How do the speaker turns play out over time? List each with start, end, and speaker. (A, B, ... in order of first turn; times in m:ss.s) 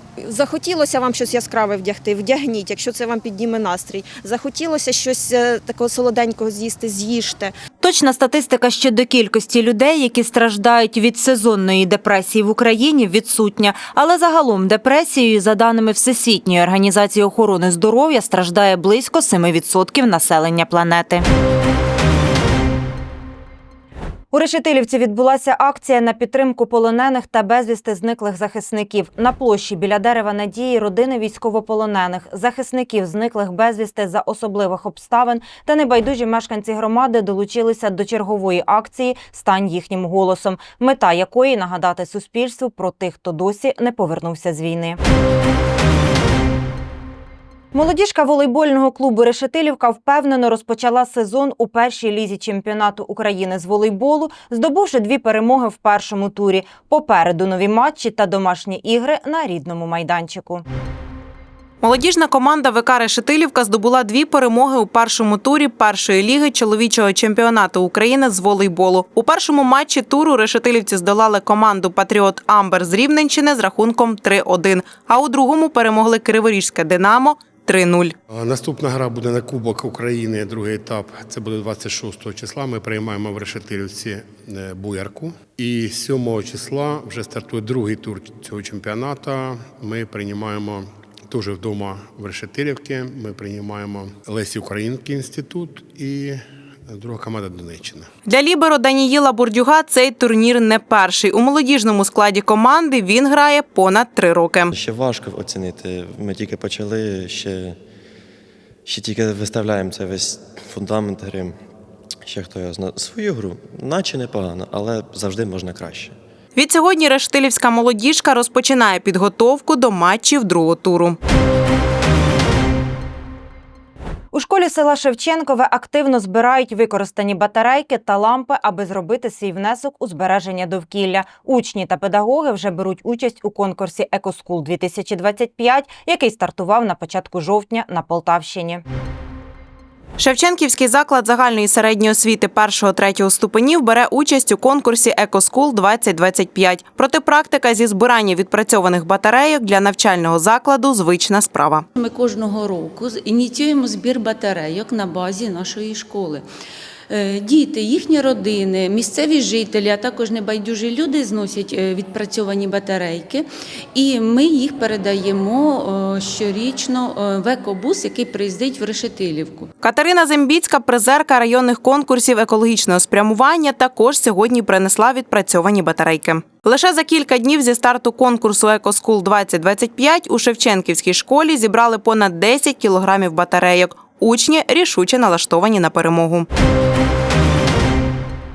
0:00.2-0:07.5 A
0:07.8-0:21.2 B
0:24.3-0:45.0 B
0:47.7-1:00.6 B
1:01.8-1:18.1 C
1:18.3-1:38.1 D
1:38.2-1:44.7 C
1:44.7-1:47.8 E
1:48.8-1:51.6 E
1:52.2-1:56.2 E
1:56.5-2:01.2 C
2:04.3-2:18.8 B
2:20.2-2:31.8 C
2:32.0-2:36.4 F
2:37.1-2:49.7 F
2:49.8-3:06.5 C